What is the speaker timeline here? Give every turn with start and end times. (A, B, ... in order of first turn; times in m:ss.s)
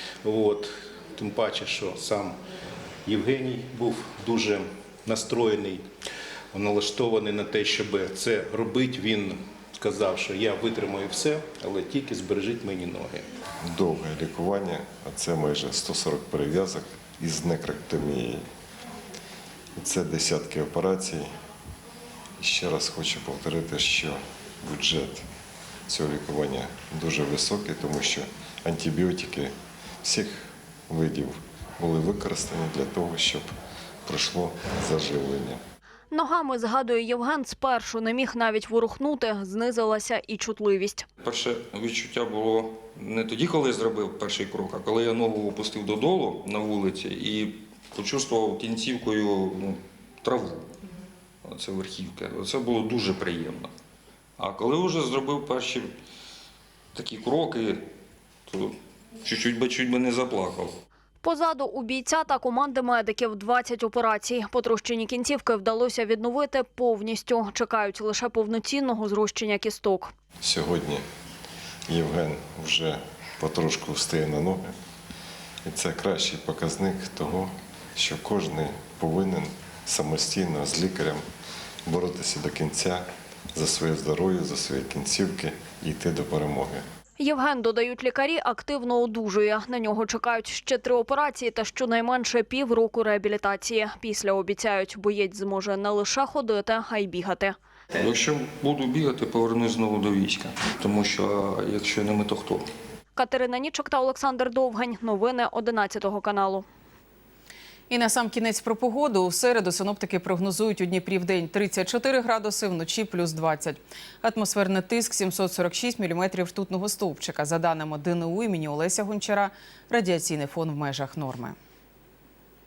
0:00.2-0:02.4 A
0:03.1-0:05.8 A
0:06.5-0:13.3 A
0:13.7-0:18.4 B
0:19.8-0:21.3 B
0:22.4-0:25.3 B
0:25.9-0:33.5 B
0:34.1-0:35.6 B
0:36.1-0:41.0 C
0:41.2-0:50.7 D
0:51.4-0:53.7 D
0:54.4-0:55.9 D
0:57.0-0:57.8 D
0:58.5-1:00.8 D
1:01.2-1:10.1 C
1:10.4-1:11.0 B
1:11.9-1:14.8 B
1:15.6-1:21.2 B
1:21.9-1:26.8 B
1:27.2-1:37.6 C
1:38.0-1:42.6 D
1:43.2-1:46.6 C
1:47.9-2:01.6 E